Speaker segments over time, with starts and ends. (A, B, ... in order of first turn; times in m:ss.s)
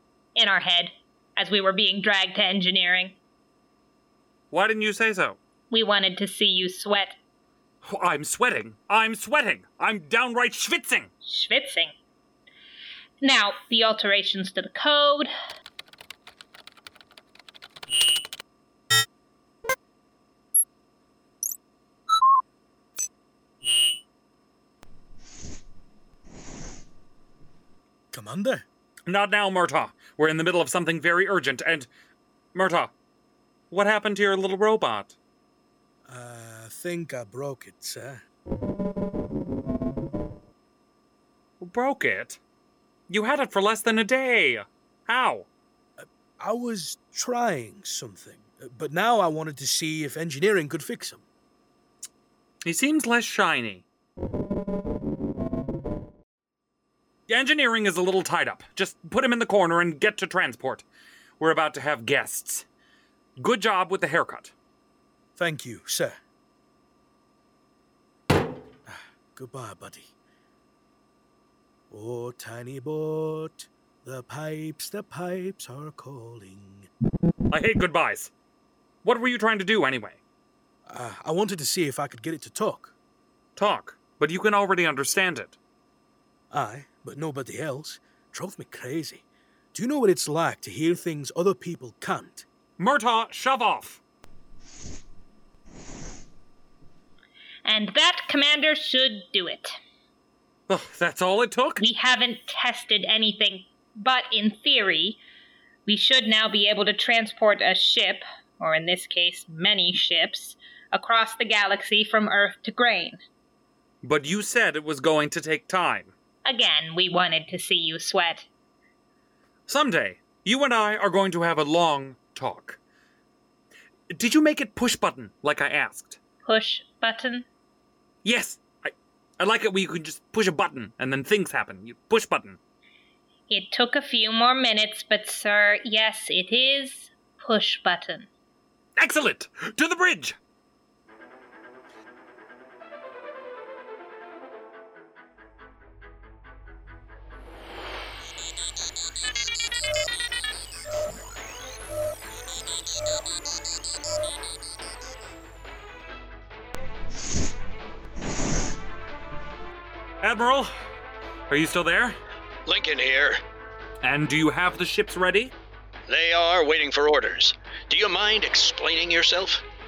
0:00.4-0:03.2 A
0:04.5-0:05.4 B
0:05.7-0:07.1 A
0:07.8-0:11.1 B
0:11.2-0:11.9 A
0:13.2-0:15.3 A
0:28.1-0:28.6 C
0:29.1-0:31.9 B
0:32.5-0:32.9 B
0:33.7-0:35.1 B
0:36.0-0:38.2 C
0:41.6-0:42.4 B
0:43.1-0:45.5 B
0:46.0-0:51.2 C
0:52.6-0:53.8 B
0:57.3-1:00.8 B
1:01.4-1:02.6 B
1:03.4-1:04.5 B
1:05.4-1:06.1 C
1:08.9-1:10.1 C
1:11.9-1:16.9 C
1:17.5-1:18.3 B
1:19.0-1:20.2 B
1:20.9-1:22.9 C
1:23.6-1:25.6 B
1:26.5-1:32.4 C
1:32.8-1:34.0 B
1:37.6-1:39.7 A
1:40.7-1:41.8 B
1:41.8-1:45.2 A
1:45.8-1:53.2 A
1:54.0-1:56.1 B
1:56.4-1:58.5 A
1:59.7-2:02.8 B
2:04.1-2:06.2 B
2:06.4-2:07.4 A
2:08.2-2:12.6 B
2:13.5-2:18.3 A
2:19.0-2:20.4 B
2:40.2-2:40.7 B
2:41.5-2:42.2 B
2:42.6-2:43.4 D
2:44.0-2:45.5 B
2:46.1-2:49.6 D